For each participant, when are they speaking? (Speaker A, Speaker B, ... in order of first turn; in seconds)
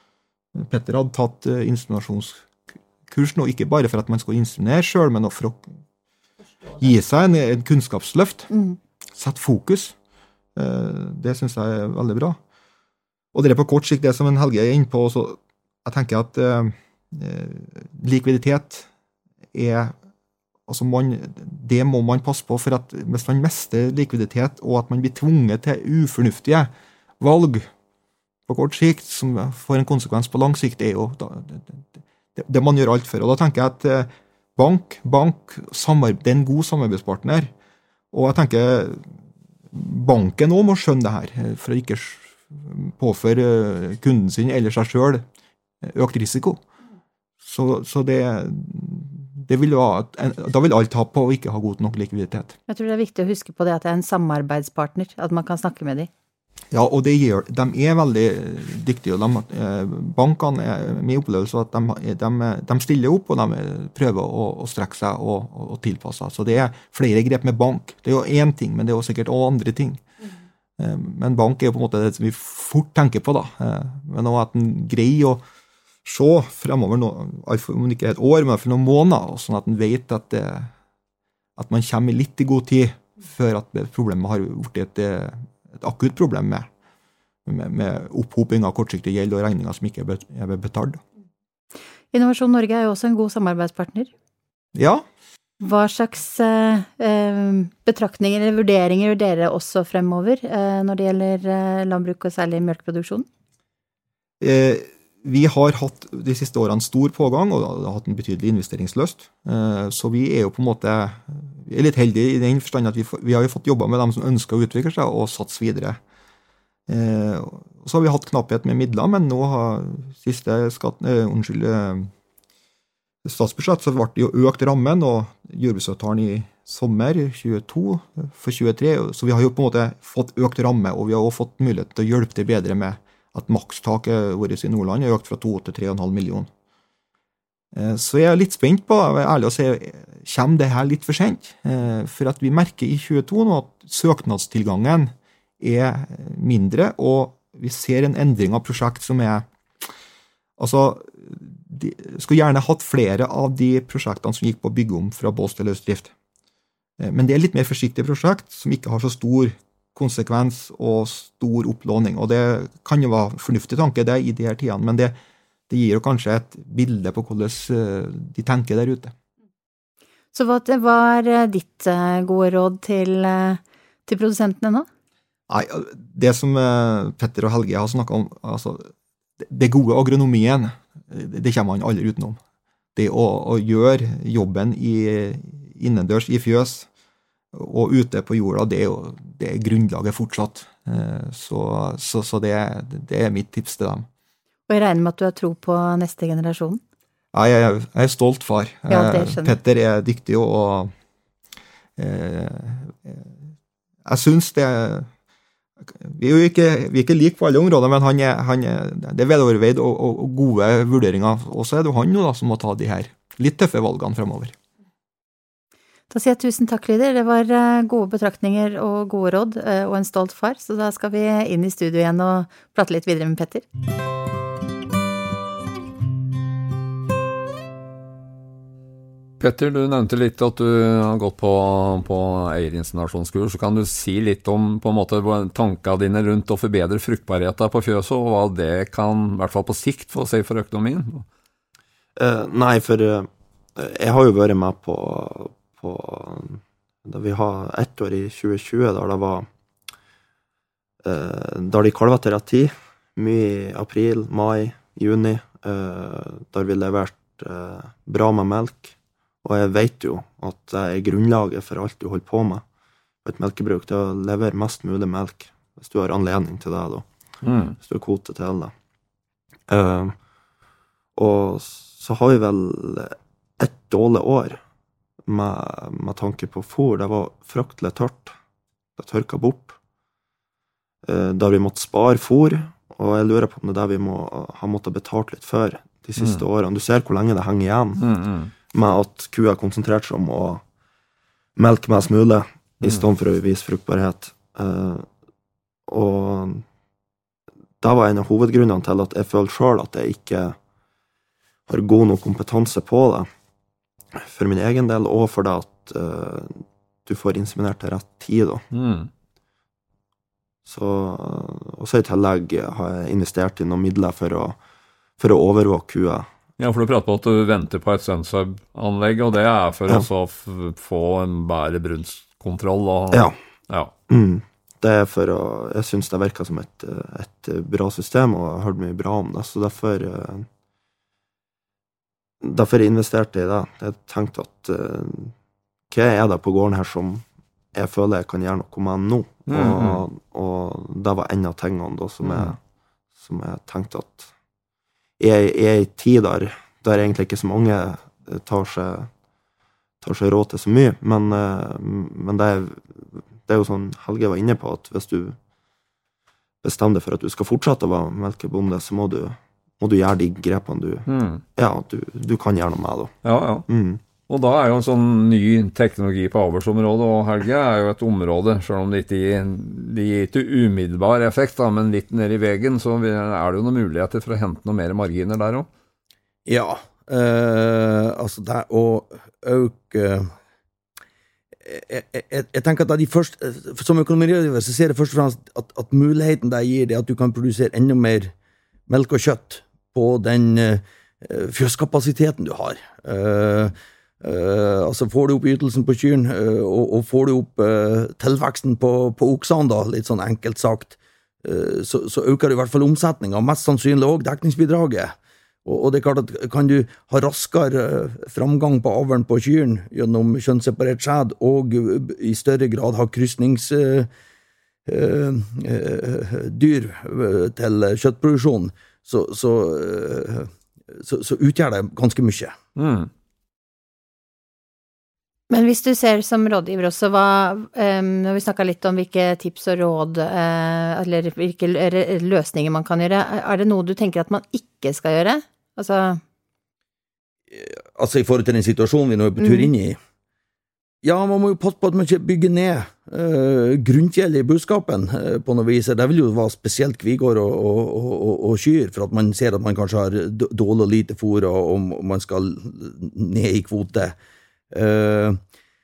Speaker A: 0.5-2.5, 3.1-5.7, 6.7-8.5, 9.1-9.9, 10.6-12.4, 13.3-18.9, 19.5-19.9, 20.7-27.7, 28.5-37.5, 38.1-39.1, 39.7-45.2, 45.8-46.6, 47.4-52.5, 56.7-70.0, 70.8-75.4, 76.0-80.7, 81.6-86.7, 87.5-91.0, 94.7-95.0, 104.4-116.0, 116.9-122.1, 123.2-136.5, 137.7-149.5, 150.6-156.1, 157.0-165.2, 165.7-169.1, 175.5-182.4, 182.9-186.9, 187.5-194.1, 197.3-200.9, 202.0-203.2, 204.0-205.1, 205.9-214.5
Speaker B: 8.5-8.8, 52.7-56.1, 92.1-94.1, 95.6-103.2, 170.3-174.9, 194.7-196.8, 198.9-199.6, 216.1-223.7, 425.5-436.2, 439.4-439.7
Speaker C: 229.4-241.2, 267.4-267.8, 286.2-286.4, 288.0-288.5, 308.7-309.1, 316.6-323.9, 339.5-340.0, 342.2-342.5, 361.1-361.4, 363.2-363.6, 364.3-375.7, 422.8-423.1
Speaker D: 242.2-249.5, 251.0-262.6, 263.2-267.1, 267.8-268.7, 269.7-270.1, 271.1-274.6, 275.2-278.3, 279.0-279.8, 281.0-288.0, 288.7-290.6, 291.6-295.1, 295.9-296.6, 297.8-300.6, 301.7-303.3, 304.2-308.6, 310.6-314.6, 315.2-316.3, 324.1-330.5, 332.4-335.3, 335.9-342.6, 343.2-344.3, 345.2-349.1, 350.0-355.4, 356.6-363.1, 363.7-364.0
Speaker E: 376.4-380.3, 381.6-388.3, 388.9-414.1, 414.9-422.6, 437.5-440.0, 441.0-454.1, 454.7-455.4